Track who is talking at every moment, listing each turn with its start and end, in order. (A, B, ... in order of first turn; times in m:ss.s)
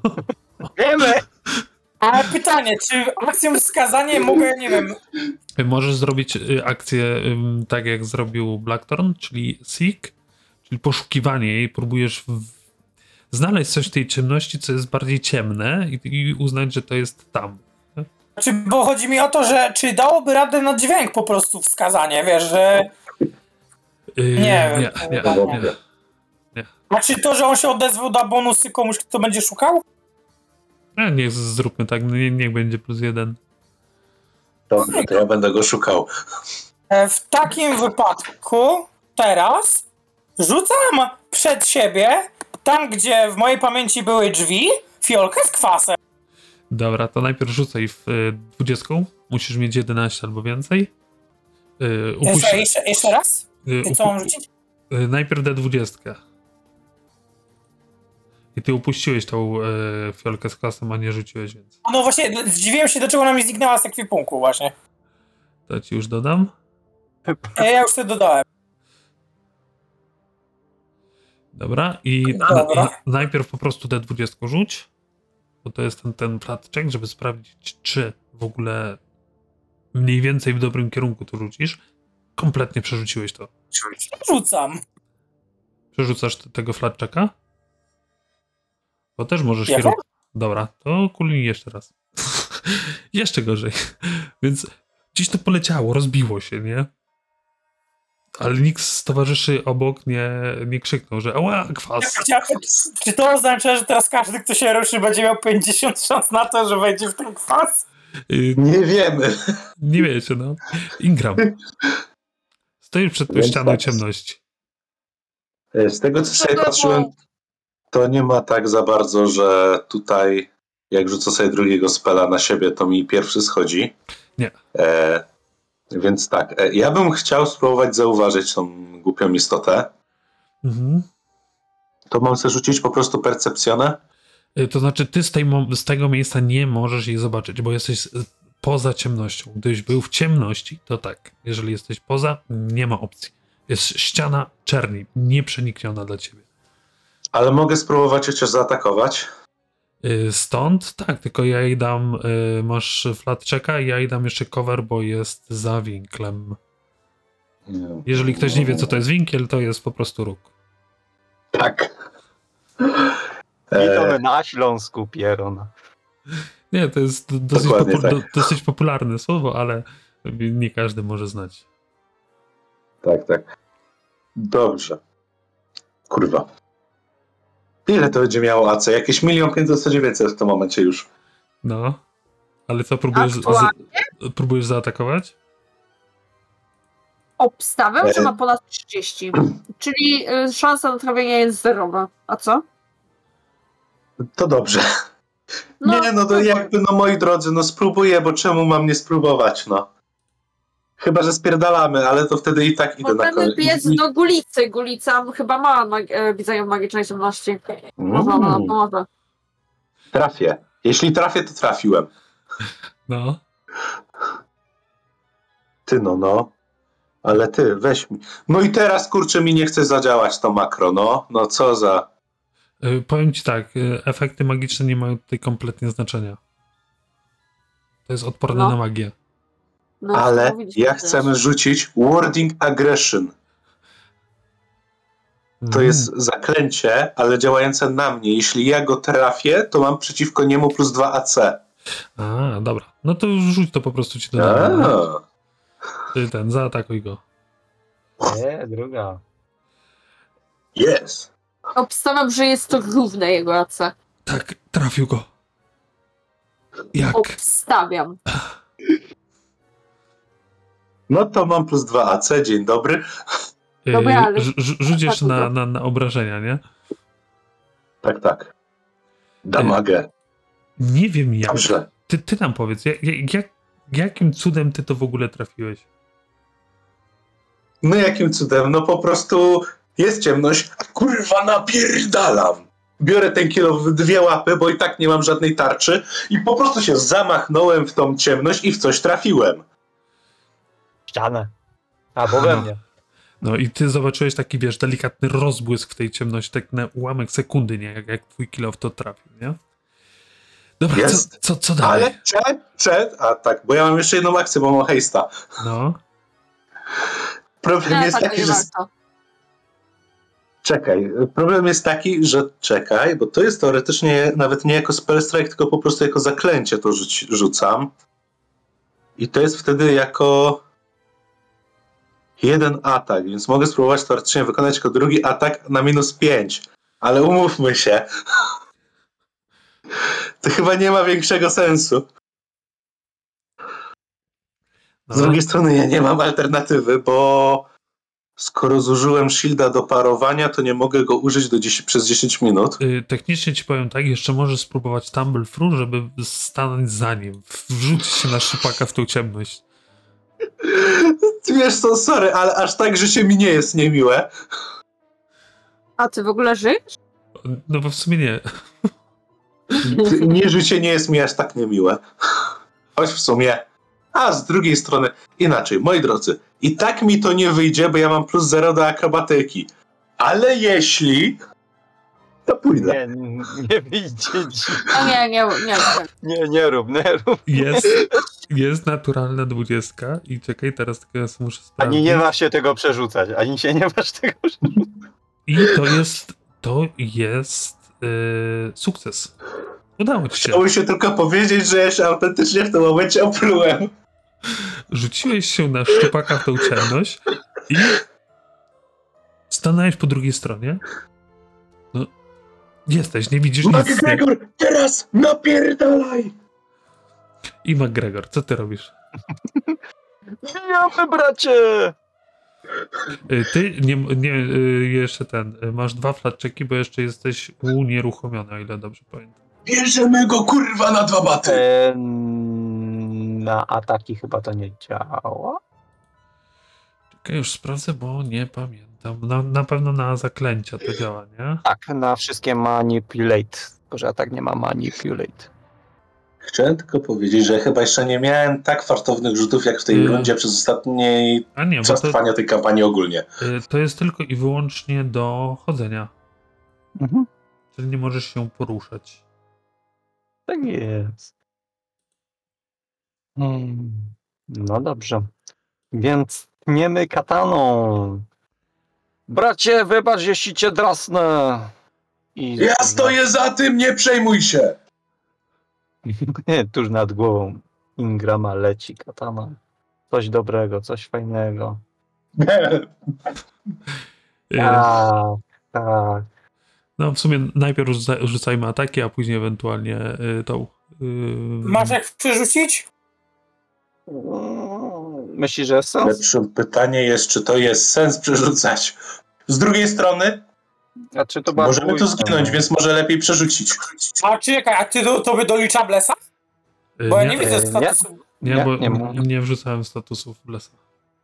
0:00.8-0:01.2 A
0:02.0-0:05.0 B
0:05.6-0:10.1 C
0:10.6-0:12.5 C
0:13.3-0:18.1 C
0:18.4-0:22.9 B
0:24.2-0:25.7 C
0:24.4-0:25.6 B
0:25.1-0:25.7 D
0:26.9-0:29.8 B
0:31.0-0:33.4 C
0:34.7-0:36.1 D
0:34.8-0:35.2 B
0:36.9-0:39.8 B
0:40.4-0:46.0 B
0:46.7-0:50.9 C
0:51.8-0:53.1 C
0:52.2-0:54.4 B
0:53.6-0:54.3 C
0:54.9-0:56.2 C
0:58.5-1:01.8 C
1:01.8-1:04.7 B
1:05.7-1:06.5 C
1:07.6-1:08.4 B
1:11.5-1:14.9 C
1:12.3-1:12.9 B
1:15.6-1:19.0 C
1:19.9-1:21.8 C
1:22.4-1:23.5 C
1:24.0-1:24.8 B
1:25.9-1:27.3 C
1:29.2-1:36.9 C
1:29.7-1:30.0 B
1:38.4-1:42.2 C
1:42.0-1:47.8 B
1:48.3-1:48.6 C
1:48.6-1:49.3 D
1:49.8-1:51.5 C
1:52.8-1:54.4 C
1:53.3-1:54.0 D
1:55.7-1:57.1 D
1:56.2-1:57.1 E
1:57.9-2:04.0 D
2:04.7-2:05.2 D
2:05.9-2:09.9 D
2:10.6-2:11.1 C
2:12.1-2:14.0 D
2:14.6-2:26.4 C
2:27.3-2:29.2 D
2:30.0-2:36.6 C
2:37.7-2:39.0 D
2:38.0-2:40.5 C
2:41.5-2:41.9 D
2:42.8-2:43.2 D
2:43.7-2:44.2 D
2:43.7-2:45.7 A
2:46.7-2:51.6 C
2:47.5-2:48.4 D
2:53.0-2:53.5 D
2:54.4-2:55.0 D
2:56.1-2:56.5 D
2:57.8-3:01.1 D
3:01.6-3:02.0 C
3:02.7-3:05.3 C
3:03.1-3:04.0 E
3:07.4-3:12.6 E
3:08.0-3:08.3 D
3:14.3-3:14.8 D
3:15.8-3:16.7 E
3:15.8-3:19.9 D
3:21.0-3:24.0 D
3:23.0-3:29.0 E
3:28.0-3:28.7 D
3:30.1-3:32.1 D
3:33.1-3:33.4 C
3:35.8-3:36.5 D
3:37.2-3:42.1 D
3:42.8-3:46.4 C
3:48.0-3:49.1 C
3:48.5-3:48.8 E
3:50.0-3:51.3 E
3:50.1-3:53.3 D
3:55.6-3:56.1 C
3:55.7-4:01.6 D
4:02.2-4:05.0 C
4:04.4-4:05.2 D
4:06.1-4:07.2 C
4:08.2-4:09.2 A
4:10.7-4:11.3 D
4:11.7-4:13.9 E
4:14.2-4:15.2 C
4:16.9-4:17.3 C
4:17.1-4:18.2 E
4:21.1-4:23.0 D
4:23.8-4:26.6 C
4:23.9-4:25.5 E
4:28.0-4:28.5 D
4:29.4-4:30.1 D
4:30.8-4:35.8 C
4:31.5-4:31.8 D
4:37.8-4:49.6 D
4:51.1-4:51.5 A
4:52.2-4:52.8 A
4:53.4-4:59.6 C
5:00.8-5:02.1 C
5:00.9-5:01.3 D
5:01.8-5:05.3 D
5:05.6-5:06.0 C
5:07.6-5:08.6 D
5:07.8-5:08.9 E
5:10.6-5:17.9 D
5:19.2-5:20.6 D
5:22.4-5:28.1 D
5:30.4-5:32.1 D
5:35.1-5:35.4 C
5:35.1-5:37.7 D
5:38.4-5:42.8 D
5:42.8-5:49.6 C
5:50.6-5:54.3 D
5:56.0-5:56.9 E
5:57.4-5:58.4 C
5:59.8-6:00.2 E
5:59.8-6:02.0 D
6:03.0-6:09.7 D
6:10.2-6:11.4 D
6:12.4-6:13.0 D
6:12.7-6:15.0 A
6:14.7-6:15.1 D
6:14.9-6:16.1 E
6:16.2-6:18.2 A
6:17.5-6:22.2 C
6:21.8-6:24.9 A
6:25.4-6:29.3 C
6:30.0-6:30.6 C
6:30.4-6:33.9 D
6:34.9-6:38.0 C
6:39.5-6:40.8 C
6:42.9-6:44.2 C
6:43.6-6:46.3 D
6:47.6-6:48.9 C
6:49.5-6:49.8 A
6:50.4-6:51.9 A
6:53.2-6:59.4 C
6:59.6-7:01.6 D
7:01.4-7:05.6 A
7:07.2-7:11.6 C
7:11.6-7:15.5 A
7:16.5-7:23.2 D
7:19.9-7:20.3 C
7:21.6-7:22.2 C
7:23.4-7:26.1 C
7:27.0-7:27.3 A
7:27.7-7:29.2 C
7:30.5-7:31.3 A
7:33.4-7:35.3 A
7:35.9-7:38.2 A
7:39.3-7:41.7 A
7:42.4-7:43.2 A
7:42.6-7:44.8 D
7:46.0-7:49.6 A
7:50.1-7:51.8 A
7:52.4-7:53.3 D
7:54.5-7:54.9 C
7:54.6-7:56.2 A
7:57.0-8:02.0 C
8:01.6-8:02.9 B
8:04.1-8:06.2 A
8:06.0-8:10.4 D
8:11.1-8:12.7 A
8:11.5-8:14.2 D
8:14.2-8:16.2 B
8:17.0-8:17.5 C
8:17.1-8:18.2 B
8:17.4-8:19.2 A
8:18.4-8:20.8 C